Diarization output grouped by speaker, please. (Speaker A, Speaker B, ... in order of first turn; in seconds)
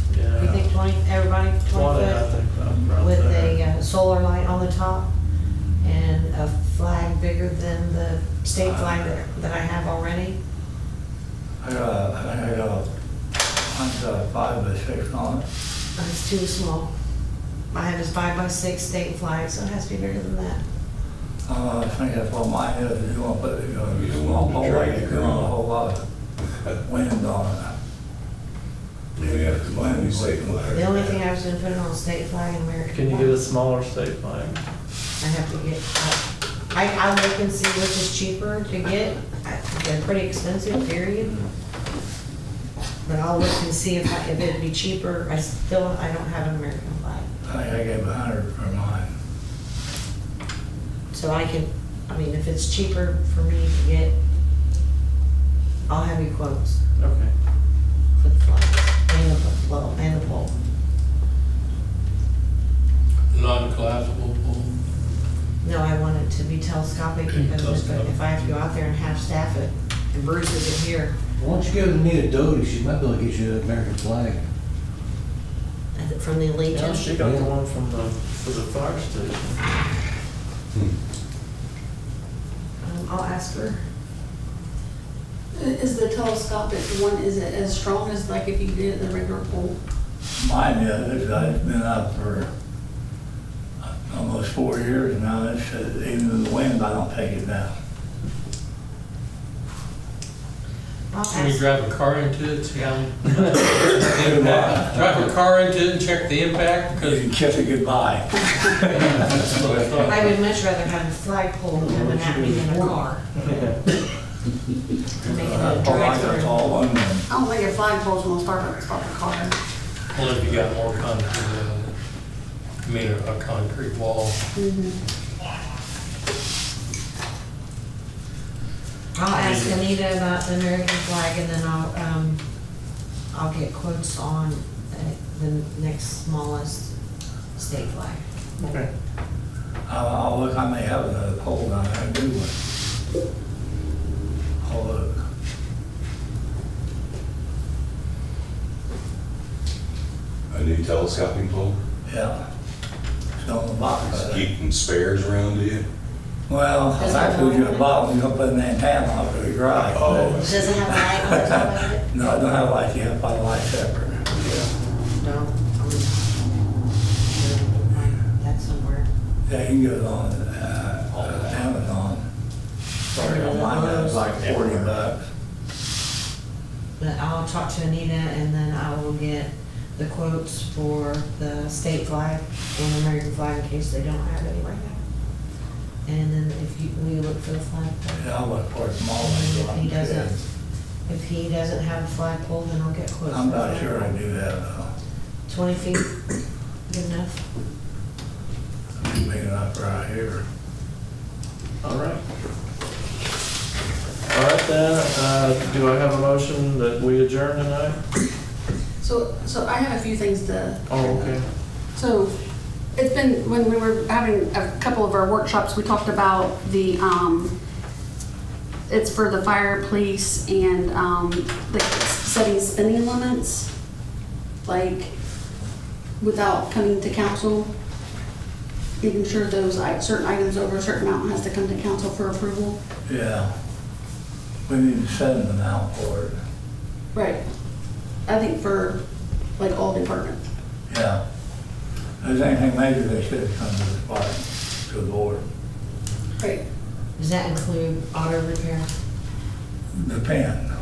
Speaker A: 0.1-0.6, 1.6-3.6, 32.9-34.6, 57.0-57.3, 76.7-79.6, 111.8-112.7, 138.6-138.9, 201.8-202.2, 204.3-208.0, 210.9-211.4
Speaker B: 0.3-2.3, 3.0-5.1, 5.8-10.4, 16.0-16.9, 17.7-20.6, 30.7-33.4, 35.2-41.4, 43.0-47.3, 51.1-54.1, 55.9-56.8, 58.2-60.5, 65.6-71.1, 75.9-77.1, 82.8-83.8, 101.1-101.6, 110.0-113.6, 115.2-116.7, 129.1-132.4, 133.3-136.9, 137.5-138.2, 160.1-162.1, 165.2-166.2, 167.3-169.1, 173.1-174.9, 177.0-185.0, 186.0-188.3, 189.2-190.4, 191.1-194.2, 195.5-196.1, 196.9-197.4, 247.2-248.9
Speaker C: 8.6-9.1, 11.6-12.9, 13.6-15.4, 21.4-26.0, 26.8-27.7, 29.2-31.2, 47.4-49.1, 90.4-92.5, 94.1-97.7, 104.1-104.9, 106.9-109.7, 115.3-117.2, 139.9-142.5, 144.6-145.2, 152.1-152.4, 153.4-154.5, 156.5-164.2, 169.4-172.2, 173.1-175.2, 188.2-190.3, 193.3-194.9, 199.0-200.4, 233.1-233.5, 234.7-236.4, 240.9-241.2, 242.2-245.4, 249.9-250.7
Speaker D: 23.8-25.5, 29.2-30.8, 150.5-151.8, 154.1-155.8, 159.9-160.8
Speaker E: 63.3-64.7, 67.3-68.1, 101.3-107.2, 108.9-110.3, 120.1-121.9, 122.8-124.4, 129.3-129.8
Speaker F: 71.3-74.4, 77.2-77.5
Speaker G: 85.5-89.8, 117.3-119.5, 124.5-125.0, 156.9-157.9, 209.0-211.4, 211.9-212.3, 212.9-217.5, 218.9-223.7, 224.6-225.1, 226.2-227.7, 229.0-232.8, 237.1-237.4, 238.2-239.0, 239.6-240.4